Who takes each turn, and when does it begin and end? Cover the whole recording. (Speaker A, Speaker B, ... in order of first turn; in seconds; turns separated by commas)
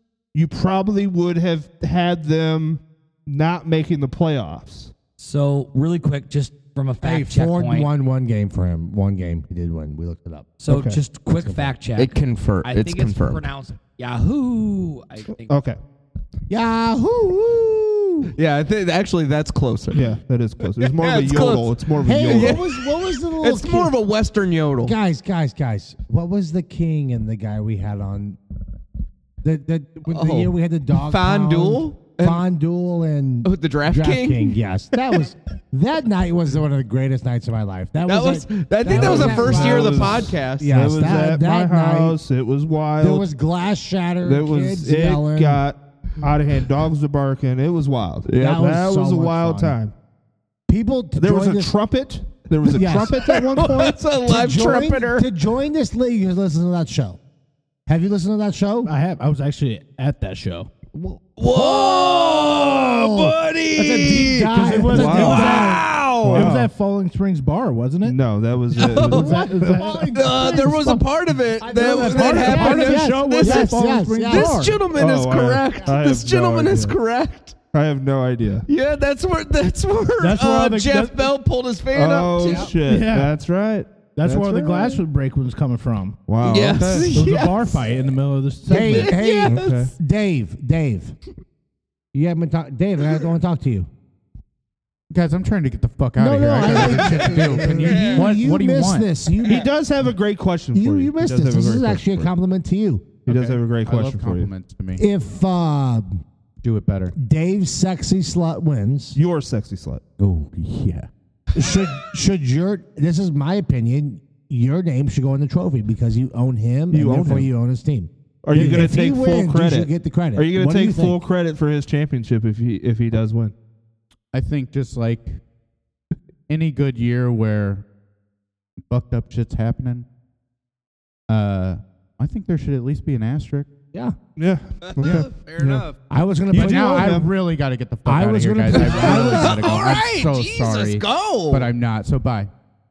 Speaker A: 0.3-4.9, Speaker B: 5.2-7.9, Speaker C: 7.0-10.7, Speaker B: 10.6-15.6, Speaker A: 10.7-11.0, Speaker C: 11.3-11.7, Speaker D: 11.9-13.4, Speaker A: 15.4-15.8, Speaker C: 16.5-18.3, Speaker D: 18.4-20.1, Speaker A: 19.9-22.6, Speaker D: 20.9-24.9, Speaker C: 22.0-24.0, Speaker C: 24.8-28.4, Speaker C: 29.4-42.2, Speaker D: 30.1-32.4, Speaker D: 33.4-34.6, Speaker D: 38.0-40.8, Speaker A: 38.9-43.3, Speaker C: 43.0-45.6, Speaker A: 44.2-49.9, Speaker C: 48.3-49.8, Speaker C: 50.7-51.7, Speaker A: 51.2-54.0, Speaker C: 52.7-53.1, Speaker D: 53.2-55.3, Speaker C: 54.2-57.2, Speaker C: 57.9-58.9, Speaker E: 58.8-60.7, Speaker C: 61.1-65.9, Speaker D: 61.4-66.5, Speaker E: 64.4-68.2, Speaker A: 64.9-65.6, Speaker A: 66.2-66.7, Speaker A: 68.0-70.0, Speaker D: 68.8-69.5, Speaker E: 68.9-70.1, Speaker C: 69.0-71.0, Speaker D: 70.1-73.7, Speaker C: 71.6-74.7, Speaker E: 71.6-74.8, Speaker D: 74.2-77.5, Speaker A: 74.9-77.0, Speaker A: 77.7-78.7, Speaker D: 78.7-82.7, Speaker E: 80.2-81.3, Speaker A: 81.9-85.0, Speaker E: 82.8-83.3, Speaker E: 84.2-86.2, Speaker A: 86.3-87.3, Speaker D: 86.4-87.8, Speaker E: 87.1-89.1, Speaker C: 88.7-91.1, Speaker D: 88.7-89.9, Speaker A: 89.5-89.9, Speaker C: 92.1-93.9, Speaker F: 95.1-99.1, Speaker C: 96.2-99.7, Speaker D: 97.8-98.2, Speaker A: 99.4-102.3, Speaker C: 100.7-103.2, Speaker A: 103.2-104.5, Speaker F: 103.2-105.0, Speaker C: 105.0-106.2, Speaker F: 106.6-107.1, Speaker C: 107.1-109.2, Speaker A: 109.1-110.0, Speaker F: 110.2-111.1, Speaker C: 111.5-121.2, Speaker A: 116.9-117.5, Speaker A: 118.4-123.5, Speaker F: 118.5-118.9, Speaker F: 124.3-125.4, Speaker F: 126.5-127.8, Speaker F: 128.9-130.1, Speaker F: 131.3-133.7, Speaker A: 134.4-135.9, Speaker D: 134.8-135.9, Speaker C: 136.1-137.2, Speaker A: 136.5-137.3, Speaker F: 136.5-142.5, Speaker C: 138.1-139.6, Speaker D: 138.7-141.7